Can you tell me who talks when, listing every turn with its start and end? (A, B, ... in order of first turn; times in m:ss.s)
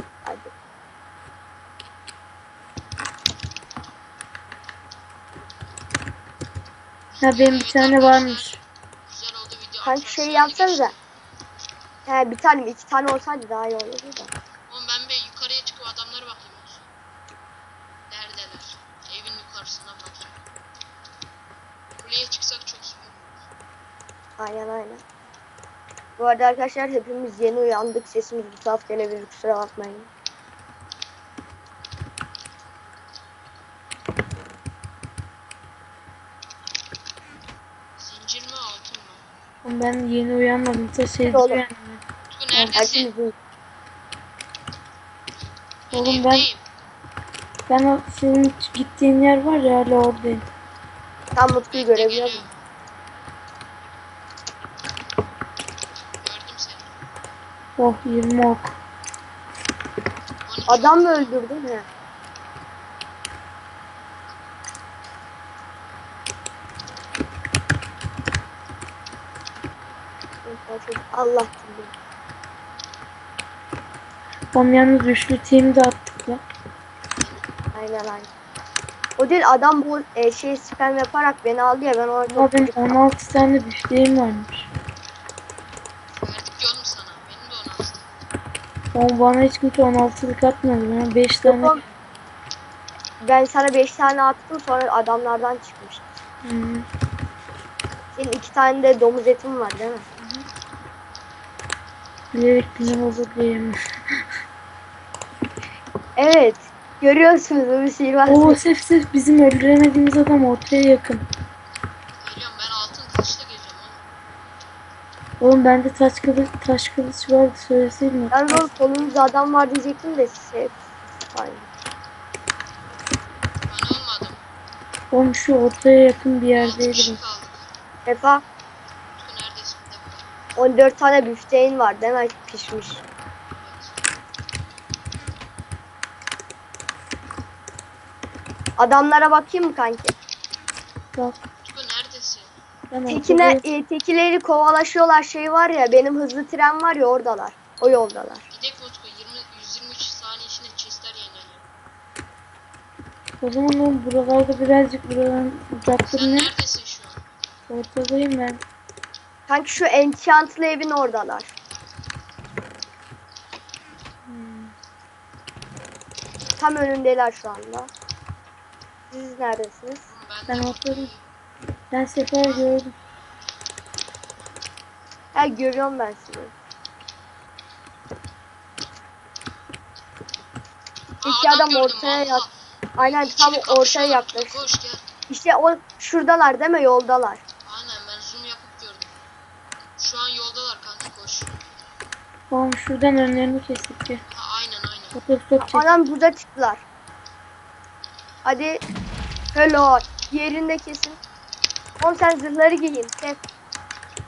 0:00.2-0:00.5 A
0:07.1-0:11.0 B
0:07.2-0:08.6 C
0:09.8-0:10.9 A
0:12.1-0:14.3 A
0:14.7-0:16.8 B
0:18.1-0:20.4 B
0:22.0-0:23.4 B
0:24.4-0:25.0 A
0:26.2-0:30.1 A
0:38.0-0:39.2 B
0:39.6-0:42.0 C
0:41.3-0:41.6 A
0:42.3-0:43.1 B
0:42.5-0:42.8 C
0:42.8-0:43.3 A
0:45.9-0:46.6 B
0:45.9-0:46.5 C
0:47.7-0:50.4 C
0:51.4-0:52.4 A
0:51.7-0:52.5 B
0:56.2-0:56.9 B
0:57.8-0:58.7 C
1:00.4-1:01.4 B
1:00.7-1:01.9 A
1:10.4-1:11.9 A
1:14.5-1:16.4 C
1:17.2-1:17.4 B
1:17.8-1:18.3 A
1:19.2-1:23.0 A
1:22.3-1:24.7 C
1:26.2-1:28.1 B
1:28.9-1:31.8 C
1:31.4-1:31.8 A
1:33.2-1:36.1 A
1:36.4-1:36.9 C
1:38.2-1:40.1 A
1:40.2-1:40.4 C
1:42.3-1:43.8 C
1:46.2-1:48.6 A
1:48.3-1:51.2 C
1:52.2-1:54.0 B
1:55.4-1:58.6 C
1:58.3-2:00.8 A
2:01.3-2:01.7 A
2:03.7-2:04.4 B
2:05.1-2:07.2 C
2:06.6-2:07.7 B
2:08.1-2:08.4 A
2:09.2-2:10.3 B
2:10.6-2:13.0 A
2:13.6-2:14.1 B
2:18.8-2:20.1 A
2:21.6-2:22.5 B
2:22.9-2:23.6 C
2:23.1-2:28.4 A
2:28.5-2:31.7 B
2:33.4-2:36.5 C
2:36.1-2:37.2 B
2:37.7-2:38.6 C
2:39.5-2:41.5 A
2:44.3-2:44.7 C
2:46.6-2:47.9 A
2:49.1-2:50.1 A
2:50.1-2:51.2 B
2:50.5-2:51.1 C
2:51.9-2:52.9 C
2:55.3-2:56.5 A
3:01.2-3:05.0 B
3:01.2-3:02.4 A
3:03.0-3:04.6 A
3:05.3-3:07.4 A
3:07.6-3:09.2 B
3:10.0-3:11.6 B
3:12.5-3:14.2 C
3:14.3-3:15.2 B
3:15.2-3:16.0 C
3:15.6-3:16.8 A
3:18.4-3:18.8 A
3:19.5-3:21.2 A
3:22.0-3:23.4 A